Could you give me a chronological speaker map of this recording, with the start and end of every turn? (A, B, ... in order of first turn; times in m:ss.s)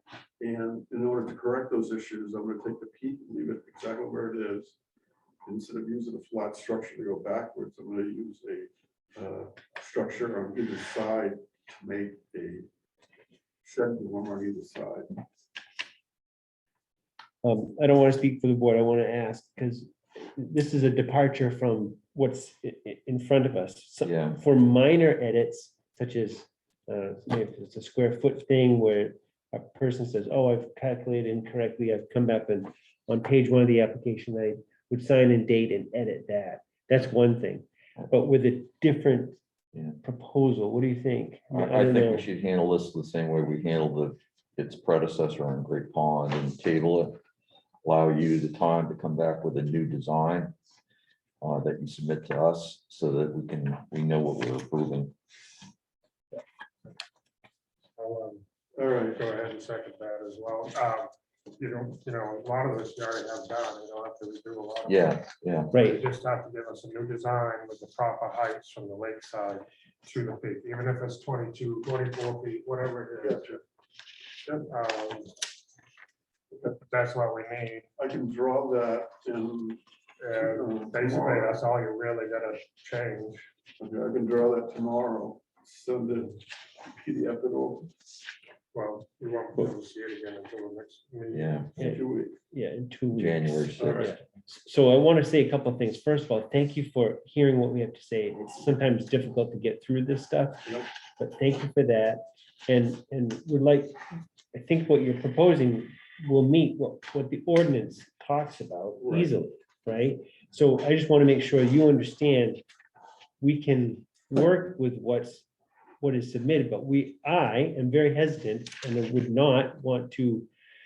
0:00.4-0:04.8 A
0:05.4-0:12.7 A
0:13.6-0:15.2 A
0:17.4-0:39.4 B
0:24.0-0:24.4 C
0:39.7-0:40.0 C
0:40.0-0:42.3 B
0:41.5-0:47.2 C
0:47.8-0:50.6 C
0:51.4-0:55.1 C
0:58.0-1:13.6 D
0:58.8-0:59.2 A
1:04.9-1:05.7 C
1:05.7-1:06.0 B
1:13.2-1:13.6 A
1:14.4-1:14.7 A
1:14.7-1:15.4 D
1:16.5-1:16.8 A
1:16.7-1:17.9 D
1:18.0-1:21.6 A
1:20.2-1:23.5 D
1:23.8-1:27.9 A
1:28.7-1:31.6 D
1:31.3-1:31.7 C
1:31.8-1:32.4 A
1:31.8-1:52.6 B
1:33.2-1:34.2 C
1:33.8-1:34.1 A
1:49.0-1:49.3 A
1:53.4-1:55.5 B
1:56.0-2:00.5 B